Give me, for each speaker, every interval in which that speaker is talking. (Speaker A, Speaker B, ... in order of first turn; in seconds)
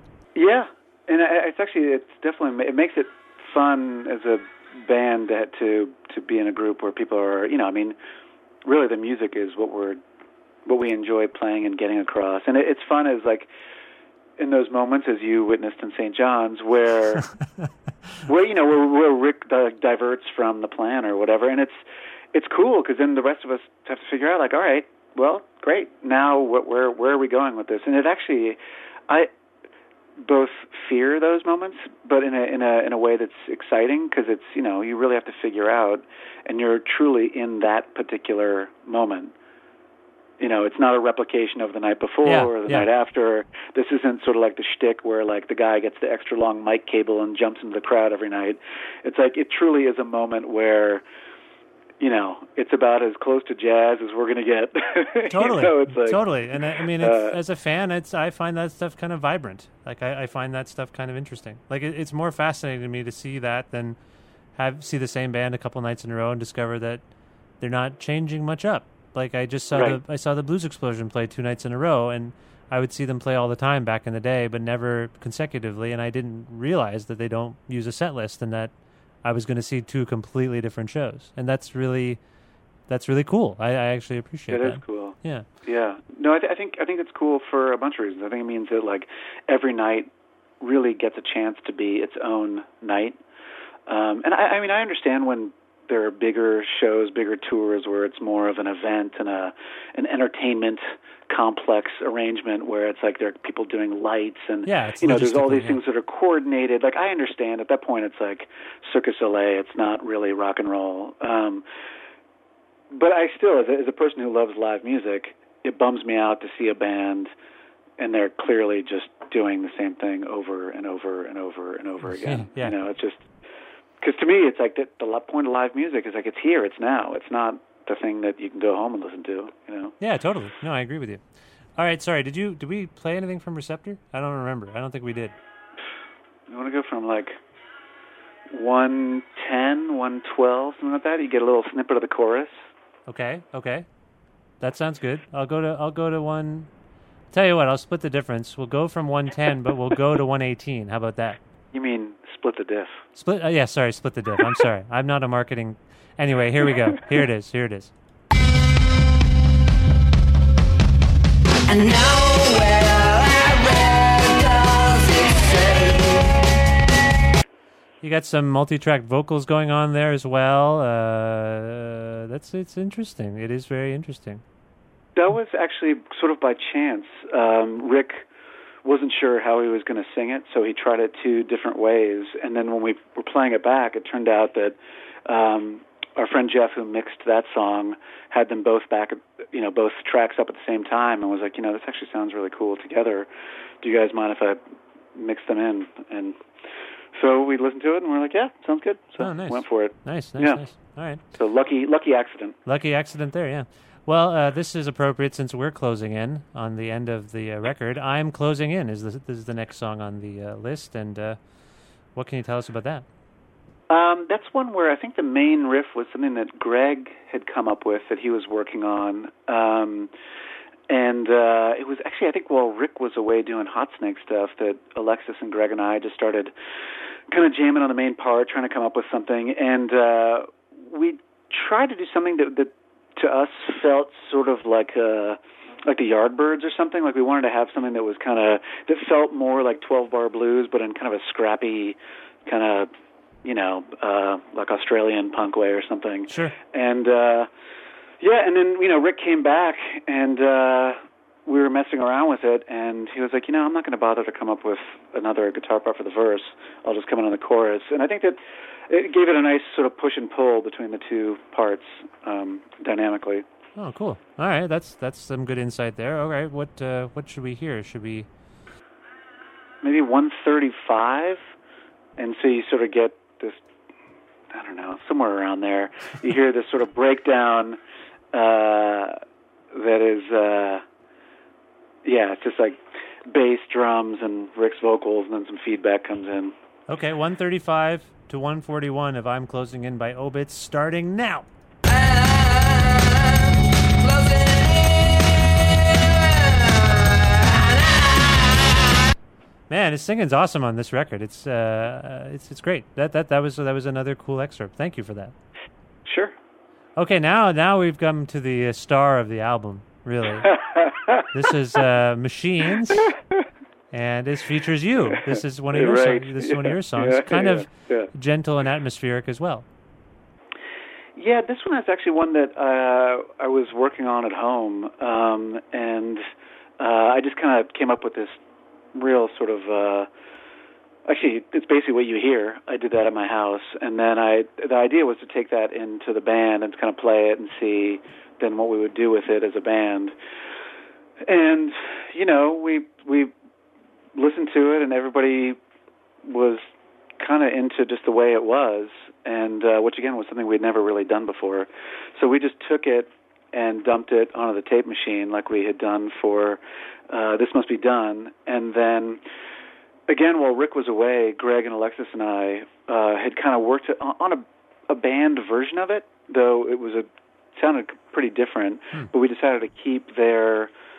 Speaker A: 0.3-8.0, 8.7-10.0, 10.7-13.5, 14.4-17.3, 18.2-21.8, 22.3-28.6, 30.2-39.3, 40.4-51.0, 52.0-57.4, 69.7-70.0, 84.5-90.1, 90.6-93.2, 93.9-111.6, 112.9-117.3, 118.0-123.2, 124.0-129.9, 136.5-137.4, 138.5-142.6, 151.7-153.0, 175.2-178.2, 178.8-193.3, 193.8-194.6, 195.2-196.4, 197.2-202.6, 213.9-220.1, 220.9-226.5, 227.3-242.9, 243.4-247.5, 248.2-263.4, 269.8-271.4, 272.2-273.6, 274.5-277.8, 278.3-279.2, 279.7-280.8, 282.1-286.5, 306.1-306.3, 310.5-311.3, 315.2-318.1, 321.2-326.2, 326.8-328.4, 328.9-330.1, 331.1-340.1, 341.3-343.3, 344.1-345.6, 346.3-346.7, 347.2-359.2, 360.1-370.7
Speaker B: 42.2-42.9, 55.3-64.0, 64.6-67.0, 67.6-78.7, 79.2-82.2, 82.9-85.5, 104.7-105.8, 122.2-122.8, 130.0-131.2, 131.8-135.3, 143.1-143.9, 144.6-146.7, 147.3-151.4, 153.2-157.9, 168.0-174.4, 199.2-201.2, 202.7-211.4, 212.2-213.1, 246.3-246.5, 263.8-268.3, 286.9-291.5, 299.7-305.3, 307.0-310.5, 311.3-313.1, 313.9-319.6
Speaker C: 161.7-166.4, 291.9-299.1